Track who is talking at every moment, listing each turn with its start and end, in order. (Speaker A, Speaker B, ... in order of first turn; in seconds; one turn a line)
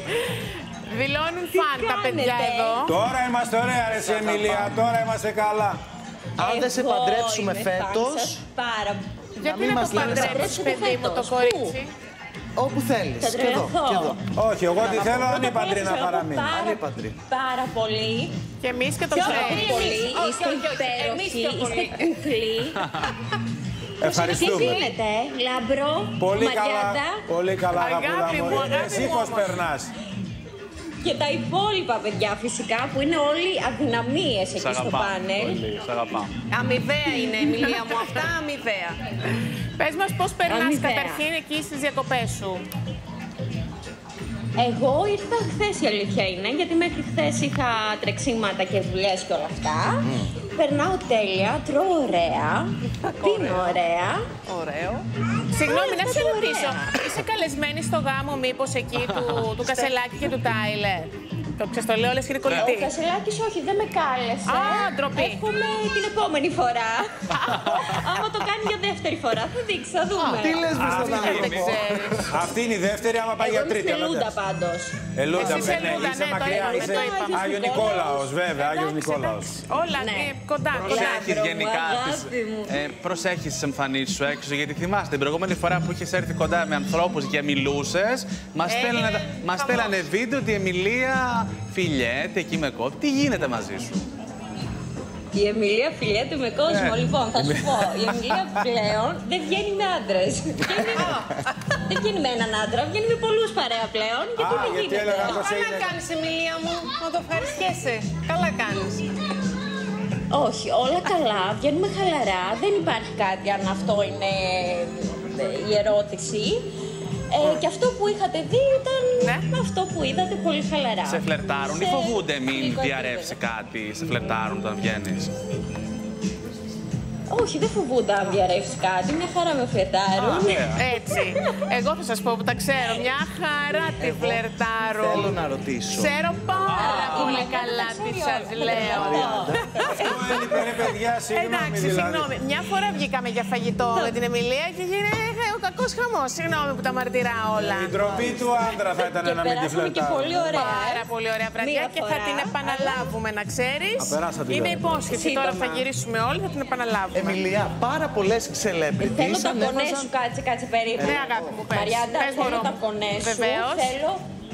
Speaker A: 0.3-3.0
Speaker B: 1.5-2.9
Speaker C: 2.9-5.8
Speaker D: 4.4-4.7
Speaker D: 6.4-8.4
Speaker B: 6.4-9.0
Speaker D: 9.4-10.7
Speaker A: 9.4-11.9
Speaker B: 9.8-11.8
Speaker D: 12.6-14.2
Speaker B: 13.2-14.2
Speaker C: 14.3-16.5
Speaker D: 14.8-15.3
Speaker B: 15.1-18.4
Speaker D: 16.4-17.2
Speaker A: 18.6-19.8
Speaker B: 19.1-22.8
Speaker E: 19.2-22.2
Speaker C: 24.0-24.9
Speaker B: 24.0-27.2
Speaker C: 26.2-29.9
Speaker A: 27.7-29.6
Speaker B: 31.0-35.6
Speaker F: 34.6-36.3
Speaker E: 36.5-39.0
Speaker A: 39.8-42.7
Speaker B: 40.5-41.2
Speaker B: 44.6-54.2
Speaker E: 53.0-53.8
Speaker E: 54.5-55.1
Speaker A: 55.5-62.9
Speaker B: 55.6-56.9
Speaker F: 59.0-59.6
Speaker F: 62.5-62.7
Speaker B: 62.5-71.0
Speaker A: 64.5-65.5
Speaker F: 67.3-68.1
Speaker F: 70.2-72.4
Speaker D: 70.3-71.8
Speaker A: 71.0-72.3
Speaker C: 72.3-74.4
Speaker B: 73.4-78.3
Speaker C: 75.2-79.6
Speaker A: 75.3-77.5
Speaker A: 78.5-81.3
Speaker B: 80.0-82.9
Speaker F: 80.7-94.0
Speaker A: 88.7-90.0
Speaker B: 95.3-101.2
Speaker F: 96.7-98.5
Speaker E: 100.9-101.4
Speaker B: 101.8-105.5
Speaker C: 104.4-106.0
Speaker E: 105.2-109.0
Speaker B: 110.3-116.6
Speaker B: 117.3-123.4
Speaker A: 119.2-119.5
Speaker F: 121.0-125.3
Speaker B: 127.3-131.1
Speaker A: 130.2-140.7
Speaker F: 130.2-130.8
Speaker D: 134.0-134.4
Speaker D: 134.9-136.2
Speaker F: 136.6-137.5
Speaker B: 136.7-140.8
Speaker D: 138.6-139.8
Speaker C: 139.8-142.3
Speaker A: 141.3-148.0
Speaker B: 143.9-144.2
Speaker C: 147.6-150.7
Speaker B: 148.0-153.1
Speaker A: 150.5-157.5
Speaker C: 154.0-155.1
Speaker B: 155.1-155.9
Speaker D: 157.1-160.1
Speaker B: 159.0-164.2
Speaker D: 160.9-161.6
Speaker A: 161.0-164.0